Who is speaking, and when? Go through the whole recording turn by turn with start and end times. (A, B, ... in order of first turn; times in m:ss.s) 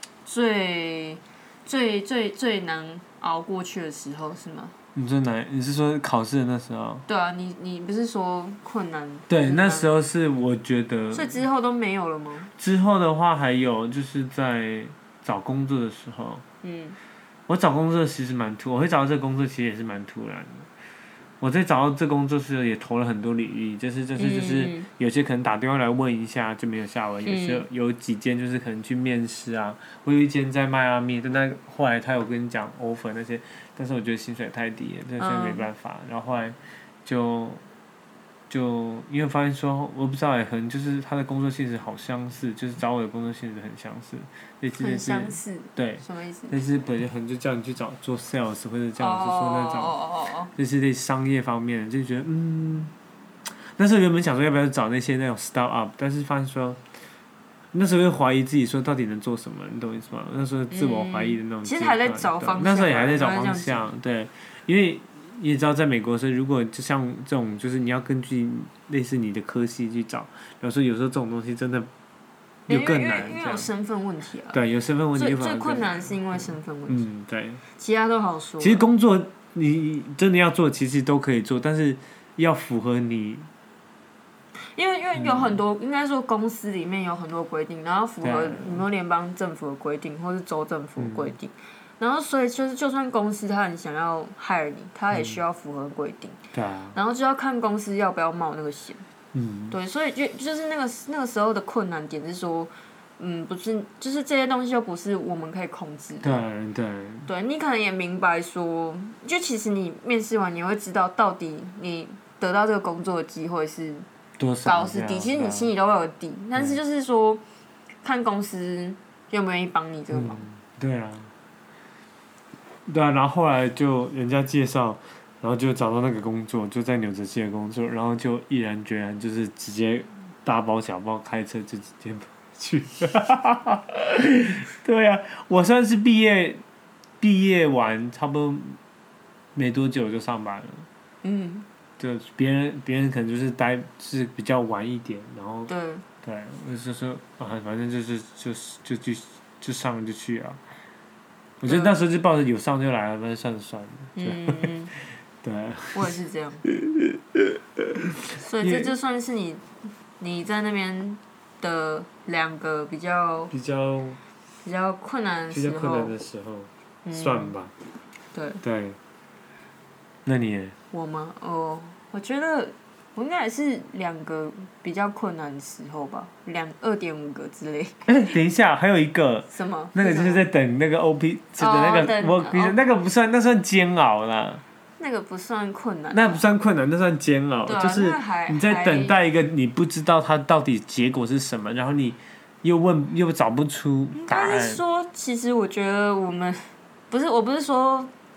0:00.2-0:04.8 A
0:05.0-0:07.0 B
0:07.1-0:09.9 A
0:09.3-0:11.4 B
0:11.1-0:12.5 A
0:12.6-0:16.4 B
0:16.6-0:17.0 A
0:17.5-0:20.7 B
0:21.4-0:37.6 B
0:24.2-0:24.9 A
0:27.3-0:27.7 A
0:35.2-0:35.7 A
0:38.5-0:50.0 B
0:44.8-0:46.6 A
0:49.0-0:50.5 A
0:50.6-0:52.9 B
0:53.8-0:56.8 B
0:57.7-1:11.9 B
1:00.7-1:03.9 A
1:12.7-1:13.7 B
1:12.7-1:14.6 A
1:14.5-1:17.6 B
1:15.2-1:17.0 A
1:17.8-1:18.8 A
1:18.6-1:23.5 B
1:24.7-1:36.4 A
1:25.2-1:25.6 B
1:28.2-1:28.8 B
1:31.0-1:31.3 B
1:35.1-1:35.4 B
1:36.5-1:37.0 B
1:36.9-1:39.0 A
1:39.3-1:39.8 B
1:39.7-1:46.4 A
1:46.2-1:47.3 B
1:47.3-1:54.1 A
1:54.4-1:55.7 B
1:54.6-1:57.4 A
1:58.0-2:00.4 A
2:00.1-2:01.3 B
2:02.9-2:16.6 B
2:17.2-2:18.8 B
2:19.6-2:20.9 B
2:21.2-2:21.7 A
2:22.0-2:25.7 B
2:25.7-2:26.0 A
2:26.2-2:30.6 B
2:31.6-2:34.7 B
2:31.7-2:32.0 A
2:34.2-2:34.9 A
2:35.4-2:36.1 B
2:35.9-2:36.6 A
2:36.8-2:37.8 B
2:38.4-2:39.6 A
2:38.6-2:38.9 B
2:40.2-2:43.5 A
2:43.5-2:44.2 B
2:44.6-2:46.2 A
2:45.5-2:47.7 B
2:47.0-2:47.6 A
2:48.3-2:48.6 A
2:48.6-2:49.0 B
2:50.2-2:50.8 B
2:50.9-2:58.0 A
2:58.1-3:04.6 B
2:59.5-3:00.4 A
3:01.6-3:02.8 A
3:05.0-3:06.4 A
3:06.1-3:14.8 B
3:07.7-3:09.2 A
3:14.1-3:18.1 A